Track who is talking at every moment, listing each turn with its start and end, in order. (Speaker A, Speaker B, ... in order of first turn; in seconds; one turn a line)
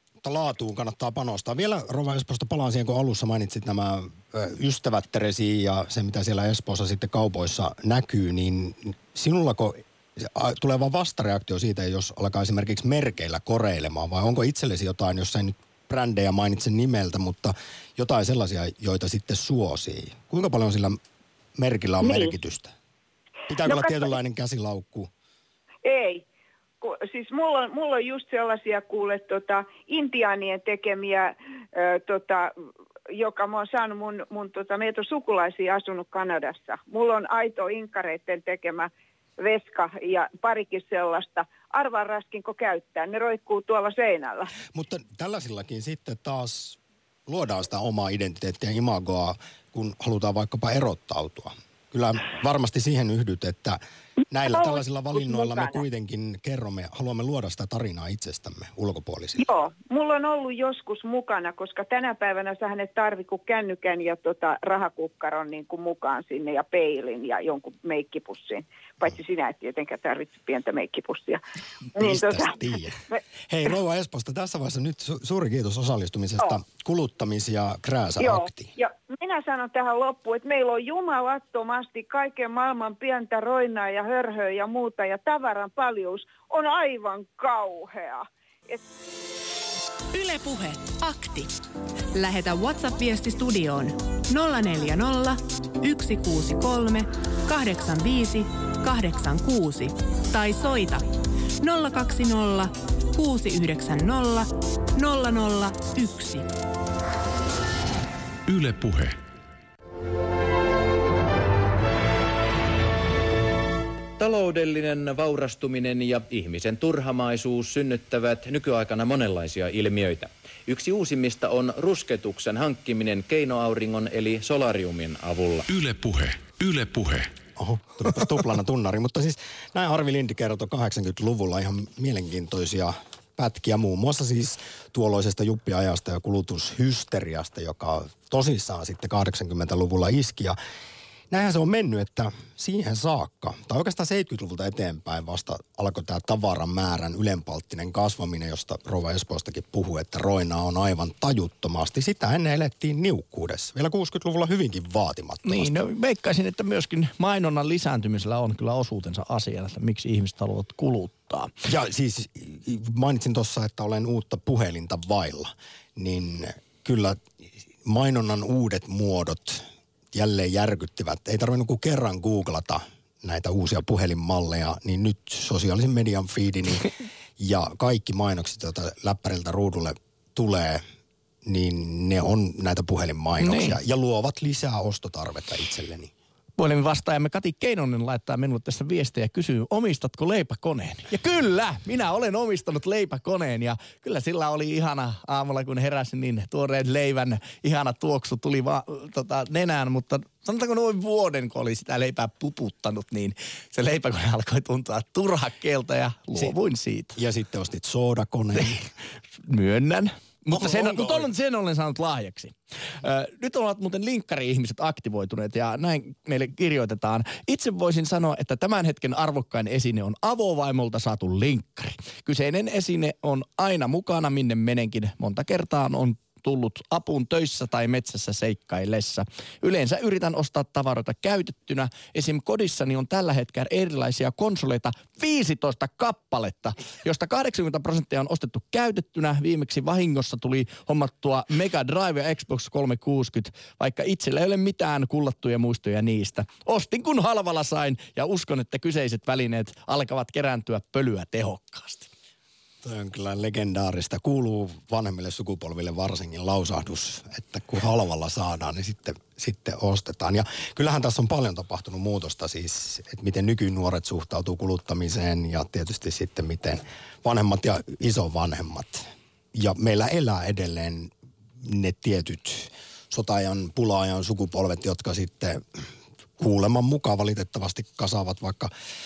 Speaker A: 0.2-21.0
Speaker A: 21.6-22.7
Speaker B: 22.0-22.3
Speaker A: 23.5-25.1
Speaker B: 23.6-24.1
Speaker B: 25.9-26.2
Speaker B: 26.8-32.5
Speaker B: 33.1-44.5
Speaker A: 44.7-53.8
Speaker A: 54.3-59.4
Speaker B: 54.5-55.8
Speaker B: 59.4-71.4
Speaker B: 72.0-72.6
Speaker A: 72.0-78.7
Speaker B: 78.2-88.8
Speaker C: 90.1-91.5
Speaker C: 92.1-101.0
Speaker C: 101.6-106.5
Speaker D: 108.5-109.2
Speaker E: 114.2-125.6
Speaker D: 125.7-127.3
Speaker A: 127.6-140.6
Speaker A: 141.3-155.8
Speaker F: 155.4-161.5
Speaker A: 161.7-167.2
Speaker A: 167.8-180.8
Speaker A: 181.5-186.1
Speaker F: 183.4-183.8
Speaker F: 186.6-207.2
Speaker A: 207.2-208.9
Speaker F: 209.4-252.1
Speaker A: 210.5-211.3
Speaker A: 252.8-271.1
Speaker A: 271.6-275.6
Speaker A: 276.4-278.7